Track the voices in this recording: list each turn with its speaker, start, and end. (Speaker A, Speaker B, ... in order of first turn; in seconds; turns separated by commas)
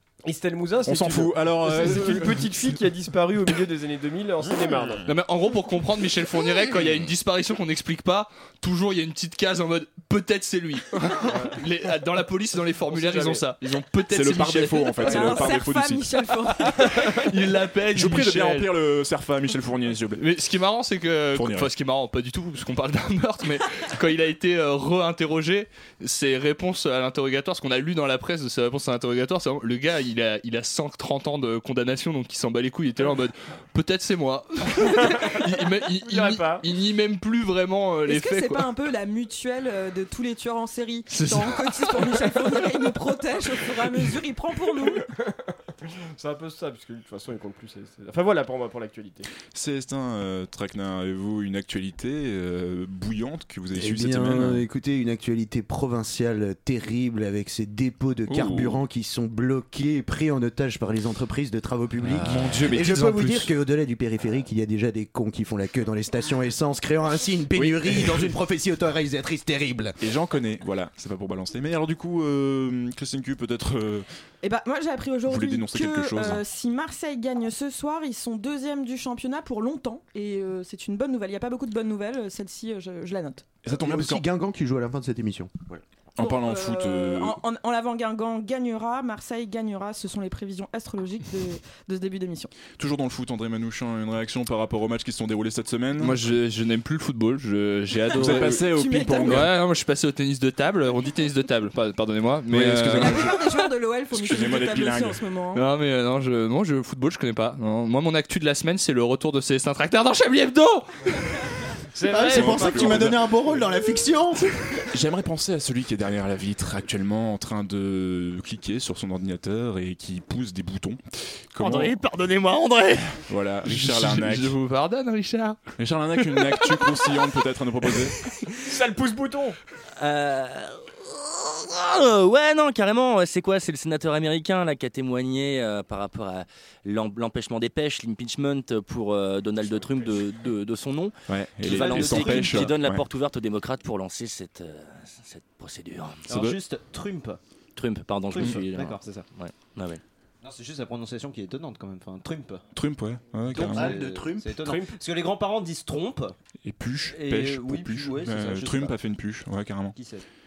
Speaker A: 0.2-5.0, Speaker B: 0.9-2.8, Speaker C: 5.0-15.6, Speaker A: 11.3-11.6, Speaker A: 12.9-13.5, Speaker B: 14.1-16.1, Speaker D: 15.0-17.1, Speaker C: 16.8-18.7, Speaker B: 17.9-20.2, Speaker C: 20.2-38.7, Speaker B: 21.3-21.7, Speaker A: 35.0-35.4, Speaker A: 36.0-36.6, Speaker D: 38.1-45.1, Speaker C: 41.1-42.5, Speaker A: 45.9-49.3, Speaker B: 49.5-54.6, Speaker E: 53.7-70.0, Speaker B: 58.3-58.8, Speaker B: 62.2-63.5, Speaker B: 70.0-74.1, Speaker D: 74.4-83.5, Speaker B: 75.3-76.4, Speaker B: 83.6-84.2, Speaker E: 83.7-85.8, Speaker B: 86.2-87.4, Speaker D: 86.2-92.5, Speaker B: 92.8-96.2, Speaker C: 96.0-98.7, Speaker B: 98.2-99.5, Speaker D: 98.6-99.5, Speaker C: 99.2-103.4, Speaker B: 102.5-103.5, Speaker D: 103.0-105.7, Speaker B: 104.1-105.2, Speaker C: 105.5-111.2, Speaker A: 112.0-113.1, Speaker E: 112.1-114.6, Speaker B: 112.2-113.2, Speaker B: 114.9-121.0, Speaker B: 121.5-122.0, Speaker F: 121.6-123.0, Speaker B: 123.3-124.5, Speaker C: 123.7-125.6, Speaker B: 125.8-128.2, Speaker A: 128.6-129.6, Speaker F: 130.0-146.3, Speaker B: 141.3-143.1, Speaker G: 141.6-142.8, Speaker G: 146.3-147.4, Speaker B: 146.3-146.6, Speaker F: 147.8-150.0, Speaker G: 148.3-149.3, Speaker G: 150.4-152.6, Speaker B: 152.8-154.0, Speaker G: 153.5-156.4, Speaker E: 153.6-154.8, Speaker A: 154.7-154.9, Speaker B: 156.6-160.0, Speaker G: 157.1-159.0, Speaker G: 159.9-160.3